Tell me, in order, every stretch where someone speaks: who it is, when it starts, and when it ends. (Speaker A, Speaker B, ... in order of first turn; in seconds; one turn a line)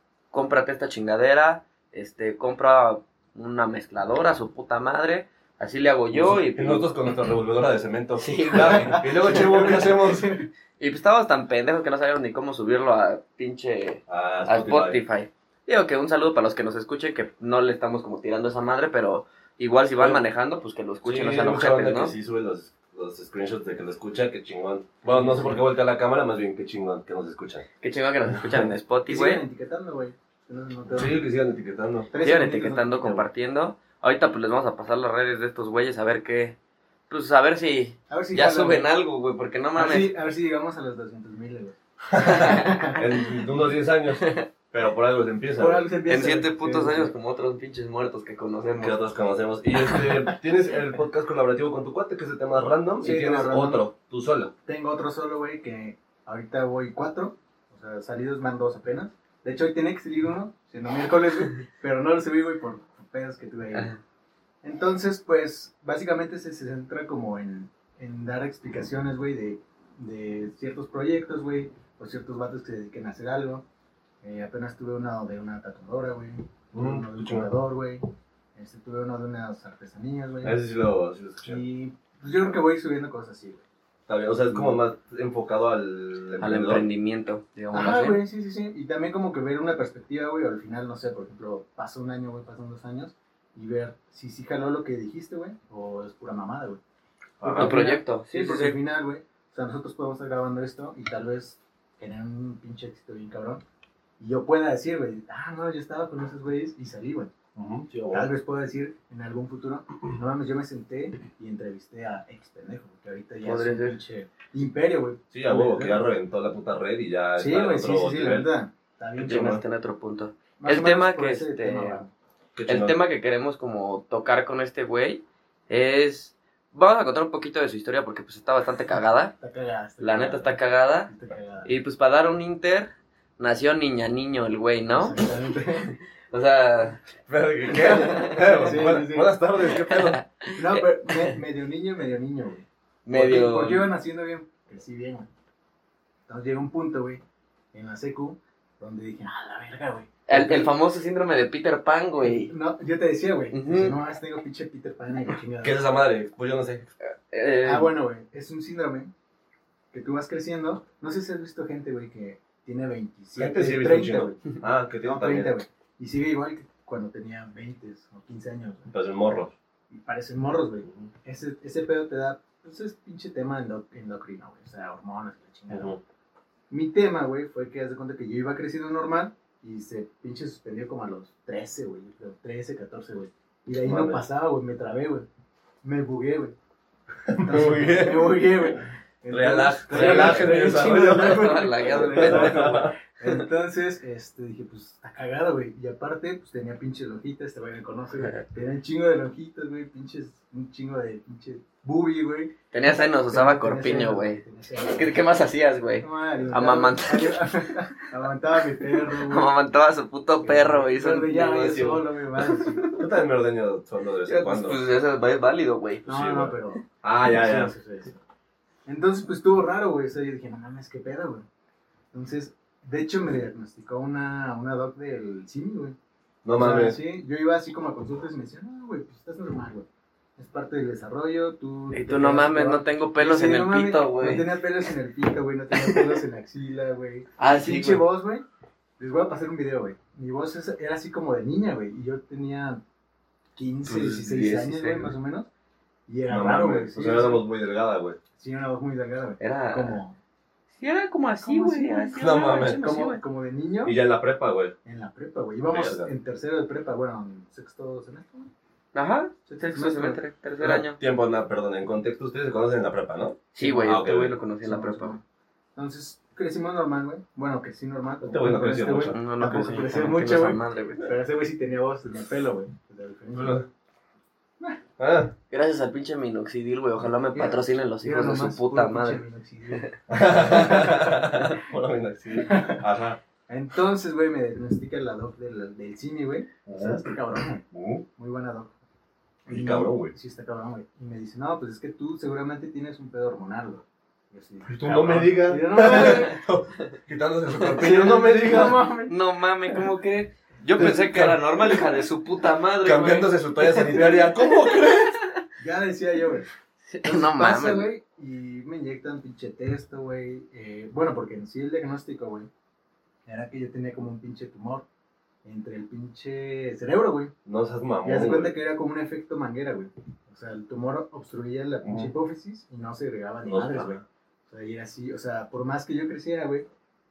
Speaker A: 0.3-6.9
Speaker B: 6.1-10.4
Speaker A: 8.2-9.4
Speaker C: 8.6-10.4
Speaker A: 10.8-22.1
Speaker B: 14.1-15.0
Speaker B: 21.0-27.6
Speaker C: 25.0-25.6
Speaker A: 27.8-29.4
Speaker B: 28.3-28.7
Speaker C: 29.1-31.2
Speaker B: 30.9-32.1
Speaker C: 32.1-33.3
Speaker A: 32.2-36.5
Speaker A: 37.1-40.1
Speaker C: 38.1-38.9
Speaker C: 39.8-43.3
Speaker B: 42.1-45.8
Speaker A: 42.2-42.9
Speaker A: 44.2-44.5
Speaker C: 45.6-47.1
Speaker A: 46.1-49.0
Speaker B: 48.8-54.5
Speaker C: 53.0-53.8
Speaker C: 54.6-63.9
Speaker A: 63.7-64.0
Speaker C: 64.6-73.6
Speaker C: 74.2-78.0
Speaker B: 76.7-77.5
Speaker C: 78.5-80.5
Speaker B: 80.4-81.6
Speaker C: 81.4-83.6
Speaker B: 84.1-86.8
Speaker A: 86.4-88.2
Speaker C: 87.7-96.8
Speaker B: 97.4-97.8
Speaker C: 97.4-103.6
Speaker A: 97.5-98.8
Speaker C: 104.2-107.3
Speaker B: 107.5-108.3
Speaker C: 108.1-116.1
Speaker A: 113.4-114.0
Speaker B: 115.3-118.5
Speaker C: 117.4-119.6
Speaker B: 119.2-119.6
Speaker A: 119.2-122.0
Speaker C: 120.6-122.1
Speaker B: 122.5-123.0
Speaker A: 122.7-129.3
Speaker C: 129.4-130.6
Speaker A: 130.0-131.1
Speaker C: 131.1-131.7
Speaker A: 131.6-137.0
Speaker C: 134.9-135.9
Speaker B: 137.3-140.2
Speaker A: 137.7-138.6
Speaker C: 137.8-139.4
Speaker A: 139.7-141.3
Speaker C: 140.5-145.3
Speaker A: 143.1-143.9
Speaker C: 146.3-147.2
Speaker C: 147.7-150.7
Speaker A: 150.3-152.5
Speaker C: 152.2-155.8
Speaker A: 153.5-153.9
Speaker B: 155.6-156.9
Speaker A: 157.0-157.9
Speaker C: 157.6-159.1
Speaker C: 159.9-168.9
Speaker B: 163.4-165.6
Speaker B: 168.9-169.5
Speaker C: 169.9-176.0
Speaker B: 175.7-176.0
Speaker C: 176.7-185.2
Speaker B: 183.8-184.2
Speaker C: 185.8-186.5
Speaker B: 187.3-192.9
Speaker C: 187.3-205.2
Speaker A: 189.9-193.4
Speaker A: 202.7-207.5
Speaker C: 206.0-209.5
Speaker A: 208.8-213.0
Speaker C: 210.4-212.8
Speaker B: 212.9-214.8
Speaker A: 214.2-216.1
Speaker B: 216.1-217.7
Speaker C: 216.1-218.2
Speaker C: 218.8-221.4
Speaker C: 222.1-225.9
Speaker B: 226.4-227.0
Speaker C: 226.5-229.8
Speaker C: 230.4-238.4
Speaker A: 231.9-234.5
Speaker A: 235.7-236.2
Speaker A: 237.4-238.0
Speaker C: 239.0-242.8
Speaker C: 243.6-245.5
Speaker A: 243.9-245.1
Speaker C: 246.1-247.4
Speaker B: 246.3-248.2
Speaker C: 248.4-250.2
Speaker A: 249.4-250.0
Speaker A: 250.8-253.2
Speaker C: 251.4-254.0
Speaker B: 252.2-252.8
Speaker B: 253.8-254.8
Speaker C: 254.8-258.5
Speaker B: 255.7-256.1
Speaker A: 258.9-261.0
Speaker C: 259.5-260.2
Speaker B: 260.6-264.4
Speaker A: 263.5-265.2
Speaker C: 263.6-264.0
Speaker C: 264.6-265.2
Speaker C: 265.8-273.6
Speaker B: 268.2-269.2
Speaker A: 269.1-271.1
Speaker B: 273.3-273.6
Speaker B: 275.0-275.3
Speaker A: 275.5-279.9
Speaker C: 277.3-281.6
Speaker B: 280.1-283.2
Speaker A: 280.5-280.8
Speaker C: 282.4-282.8
Speaker C: 283.5-287.6
Speaker B: 286.6-287.1
Speaker B: 287.7-288.0
Speaker C: 288.2-288.7
Speaker C: 289.4-296.4
Speaker B: 289.5-290.1
Speaker B: 294.7-298.8
Speaker A: 297.6-305.4
Speaker C: 297.8-299.1
Speaker B: 300.8-301.4
Speaker B: 302.8-305.1
Speaker C: 303.7-304.4
Speaker C: 305.6-306.5
Speaker A: 306.9-307.9
Speaker C: 307.0-312.5
Speaker C: 313.2-314.9
Speaker C: 315.4-317.3
Speaker B: 317.4-318.5
Speaker C: 318.0-326.7
Speaker B: 321.8-322.1
Speaker B: 323.4-324.0